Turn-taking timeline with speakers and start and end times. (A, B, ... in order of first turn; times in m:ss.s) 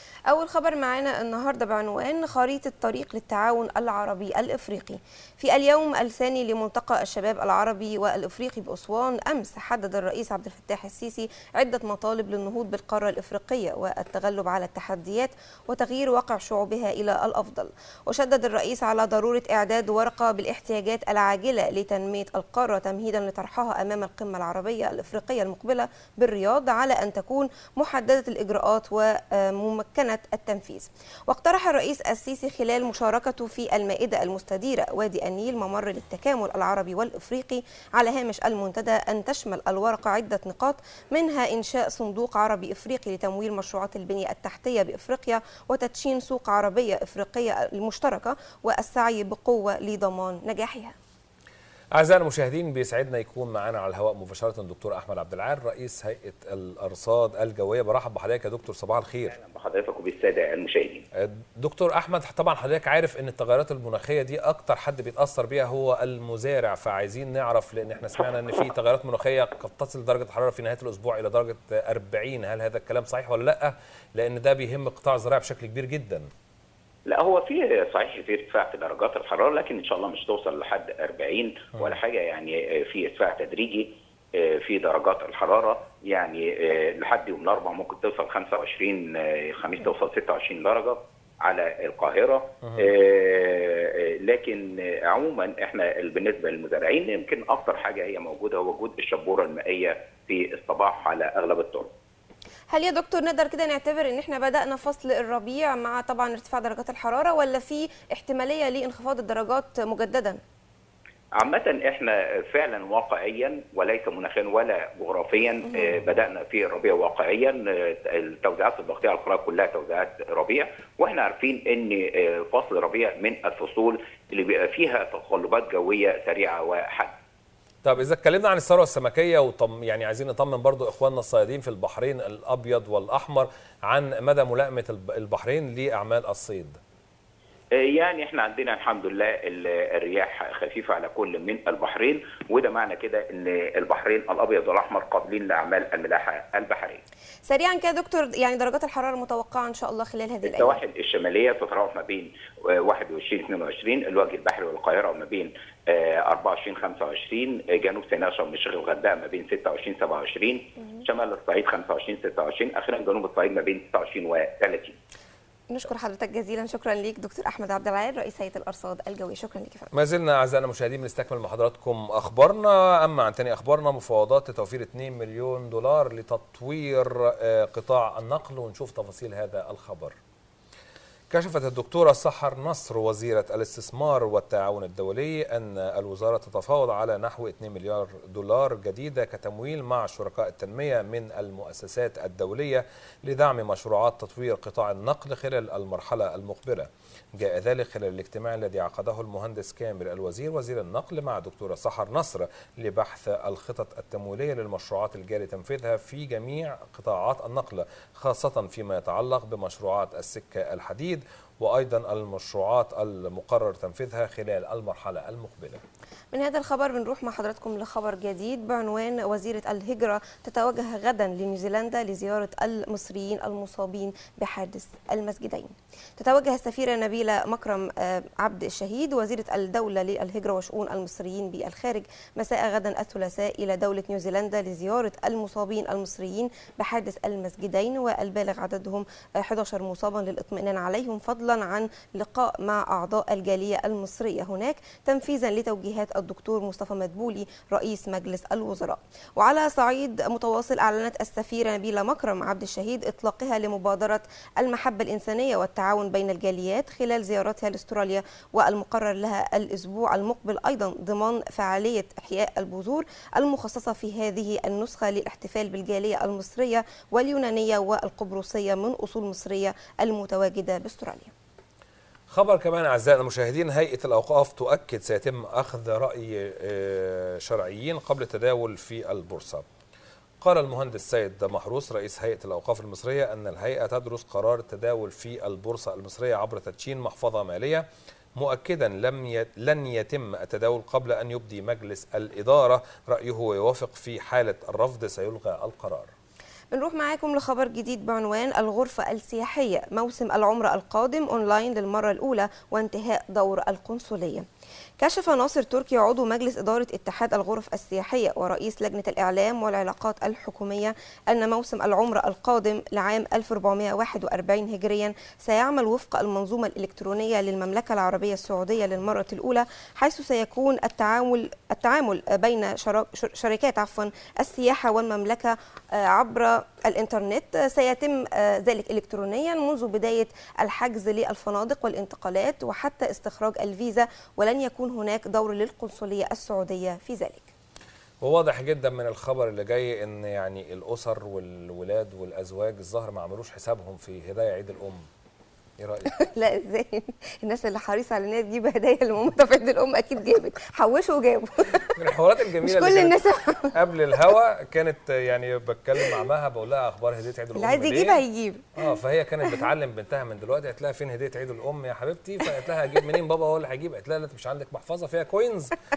0:00.3-0:51.0 A
0:52.0-0:59.3 B
0:59.4-1:01.0 C
1:01.2-1:16.3 B
1:17.1-1:41.9 C
1:42.7-1:50.4 A
1:51.4-2:07.1 C
2:07.8-2:16.8 B
2:17.8-2:27.0 C
2:27.5-2:30.8 A
2:30.4-2:45.0 C
2:45.7-2:49.9 A
2:49.9-3:00.2 B
3:01.3-3:35.8 B
3:36.3-4:31.3 A
4:32.3-4:39.6 B
4:40.4-4:47.8 B
4:48.4-4:56.1 B
4:56.7-5:04.4 A
5:05.0-5:37.5 A
5:38.2-5:45.1 B
5:45.8-5:46.1 B
5:46.1-5:51.9 A
5:51.9-5:58.2 B
5:52.6-5:53.8 A
5:57.6-5:58.7 A
5:58.8-6:05.7 B